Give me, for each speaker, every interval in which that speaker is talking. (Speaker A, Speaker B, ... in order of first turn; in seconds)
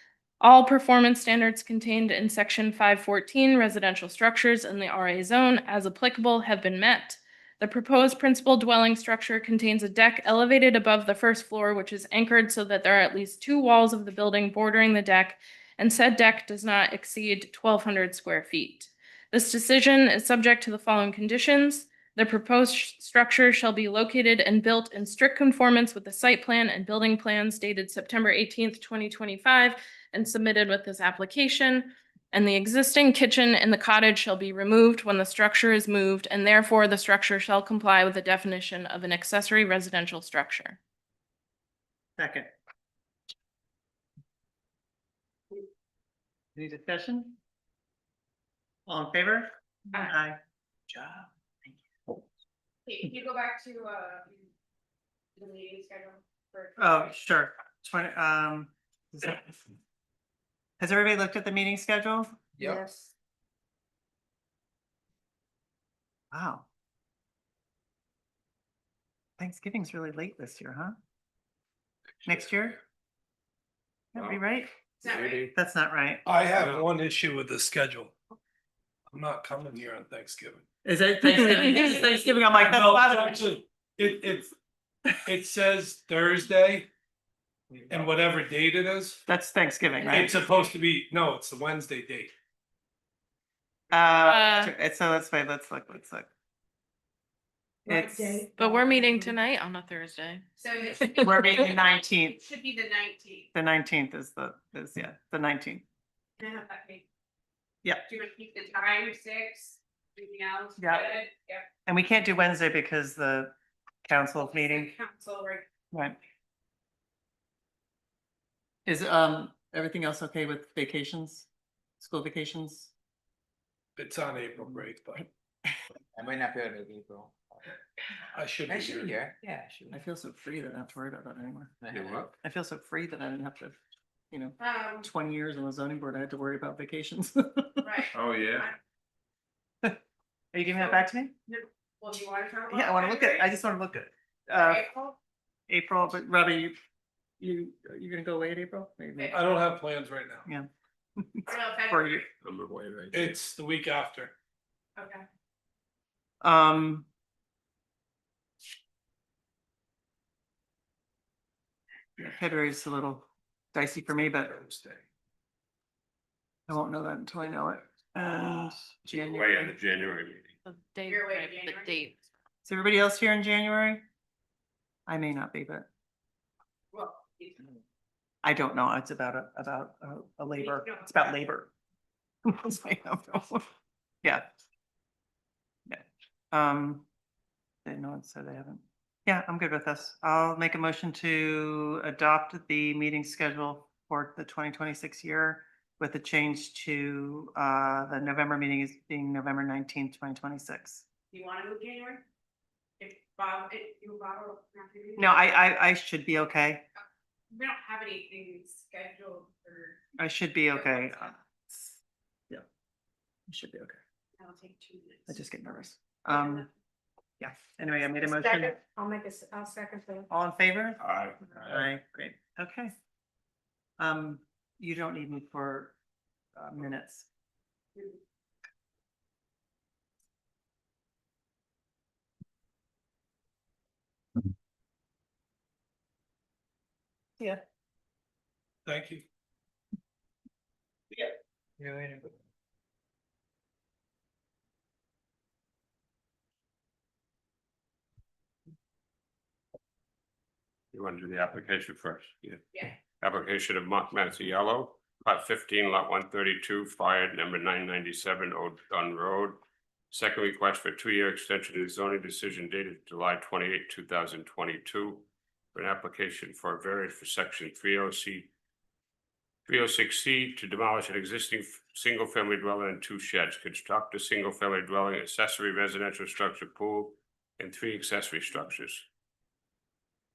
Speaker A: 0.4-40.8, 94.2-94.7, 98.6-100.4, 170.6-172.2
Speaker B: 42.2-42.5, 46.5-47.4, 48.9-50.4, 56.8-59.6, 60.8-62.3, 66.3-66.6, 69.4-70.9, 72.2-72.8, 74.1-74.7, 75.4-76.2, 80.8-83.4, 89.3-90.4, 93.9-96.3, 97.9-98.4, 101.2-102.4, 103.5-105.8, 110.8-111.2, 111.8-113.5, 114.0-114.9, 115.9-116.2, 118.8-121.5, 122.0-122.9, 129.9-131.7, 132.4-133.8, 134.3-138.0, 140.5-141.3, 142.7-145.0, 145.7-146.7, 147.4-149.4, 150.4-152.2, 156.4-157.1, 162.2-164.6, 166.7-169.8, 172.6-174.0, 175.1-175.9, 178.4-181.7, 182.4-183.7, 185.9-187.1, 187.8-201.0, 205.2-206.8, 210.2-212.0, 213.5-214.0, 215.3-216.7, 217.4-218.8, 220.3-221.0, 221.6-222.9, 224.0-225.9, 226.6-227.3
Speaker C: 50.9-51.2, 62.6-62.8, 126.1-127.7, 128.7-130.0, 131.8-132.3, 241.8-242.3
Speaker D: 52.9-54.5, 55.4-57.1, 62.6-63.1, 75.0-75.5, 97.9-99.1, 100.6-103.5, 106.4-107.0, 108.0-111.7, 114.5-115.7, 134.6-135.1, 137.8-138.8, 141.5-143.4, 144.5-145.1, 151.5-152.3, 154.9-155.2, 171.1-172.0, 176.9-177.7, 180.6-181.1, 201.3-202.2, 203.0-205.4, 207.5-210.0, 210.7-211.3, 214.4-215.4, 216.3-216.7, 218.2-220.3
Speaker E: 75.0-75.5, 131.9-132.2, 138.1-138.7, 152.4-153.4, 169.1-170.6, 221.0-221.5, 250.9-268.5, 269.7-279.1
Speaker F: 76.2-78.2, 79.1-80.6, 82.5-84.5, 85.2-86.9, 87.9-89.2, 90.0-92.3, 124.0-125.3, 128.3-129.2, 149.3-150.5, 153.1-154.3, 164.7-165.0, 238.8-239.2